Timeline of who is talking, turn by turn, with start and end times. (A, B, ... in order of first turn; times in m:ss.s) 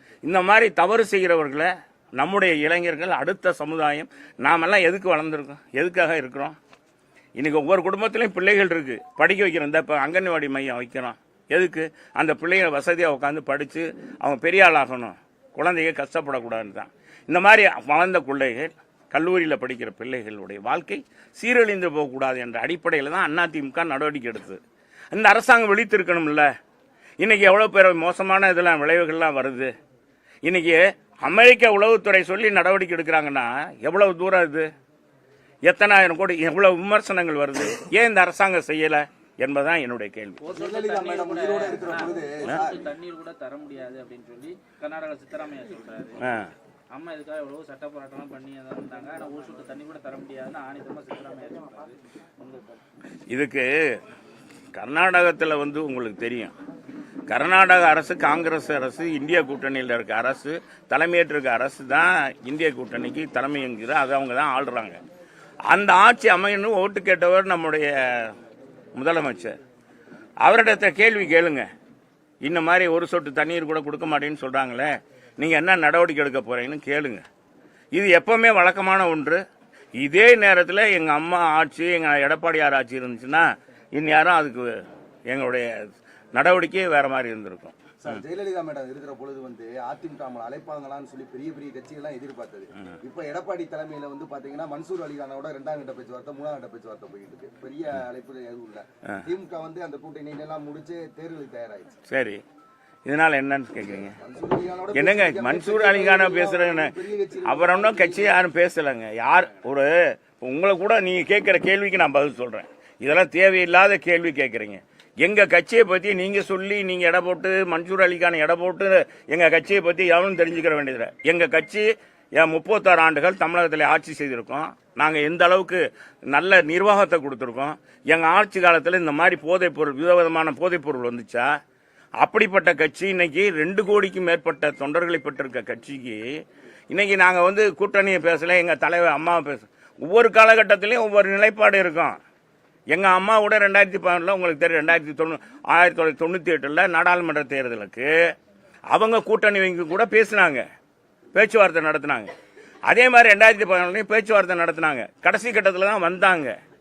0:00.2-0:06.6 A
0:07.4-0:24.6 A
0:25.1-0:26.5 A
0:27.2-0:29.7 A
0:30.4-0:34.7 A
0:35.6-0:40.4 A
0:40.4-0:46.2 B
0:40.5-0:42.9 C
0:46.2-0:46.5 A
0:46.9-0:52.6 B
0:53.3-0:54.0 A
0:54.7-0:56.5 A
0:57.3-1:05.0 A
1:05.7-1:08.3 A
1:09.0-1:09.6 A
1:10.4-1:11.7 A
1:12.4-1:17.2 A
1:17.9-1:19.4 A
1:20.0-1:24.8 A
1:25.3-1:28.2 A
1:28.0-1:41.9 C
1:42.1-1:42.4 A
1:43.0-1:44.1 A
1:44.1-1:48.4 C
1:44.9-1:46.9 A
1:47.4-2:11.5 A
2:12.2-2:16.3 A
2:16.9-2:22.2 A
2:22.9-2:28.1 A
2:28.9-2:30.6 A
2:31.3-2:32.3 A
2:32.9-2:36.6 A